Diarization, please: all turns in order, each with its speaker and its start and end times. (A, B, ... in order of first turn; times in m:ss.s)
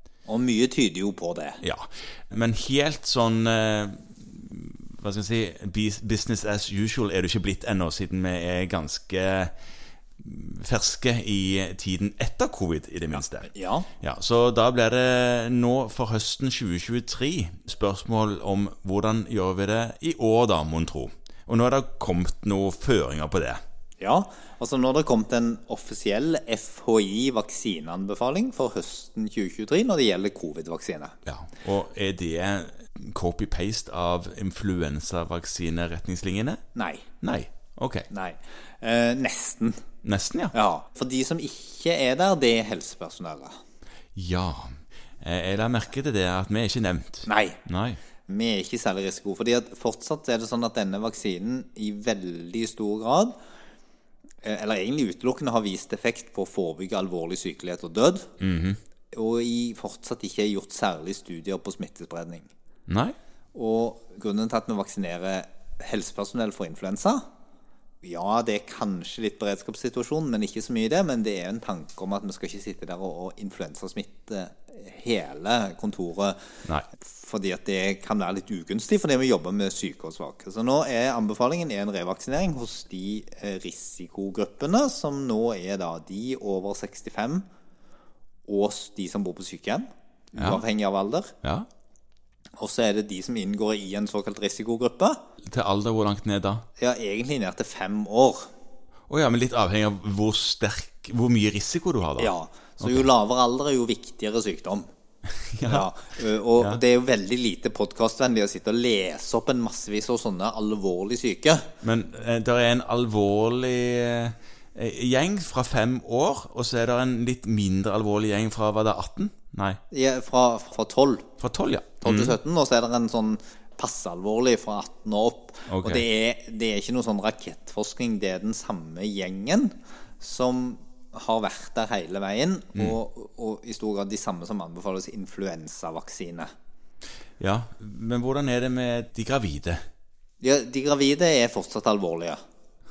0:00.3-0:01.6 A
0:01.6-0:09.5 B
0:10.2-0:13.5 B
0:13.4-0:13.9 A
0:14.0-0:23.6 B
0:24.0-0:31.1 A
0:31.2-0:36.6 B
0:36.7-0:37.0 A
0:37.2-0:38.1 B
0:38.1-0:39.8 A
0:40.0-0:40.5 B
0:40.5-0:43.6 A
0:44.1-0:48.0 B
0:47.3-0:47.6 A
0:48.3-0:53.3 A
0:54.4-0:58.3 A
0:58.4-0:58.8 B
0:59.1-1:02.5 A
1:02.9-1:03.1 B
1:03.5-1:07.2 A
1:08.0-1:16.4 A
1:16.9-1:27.4 A
1:28.5-1:31.3 A
1:30.3-1:30.6 B
1:32.6-1:35.2 A
1:35.5-1:36.6 B
1:36.8-1:38.5 A
1:39.1-1:43.1 B
1:42.2-1:44.9 A
1:45.5-1:45.9 B
1:45.6-1:51.7 A
1:46.5-1:46.8 B
1:51.8-1:59.8 B
1:59.9-2:01.3 A
2:01.4-2:02.4 B
2:02.0-2:16.5 A
2:05.7-2:06.0 B
2:17.4-2:19.8 B
2:20.4-2:22.4 A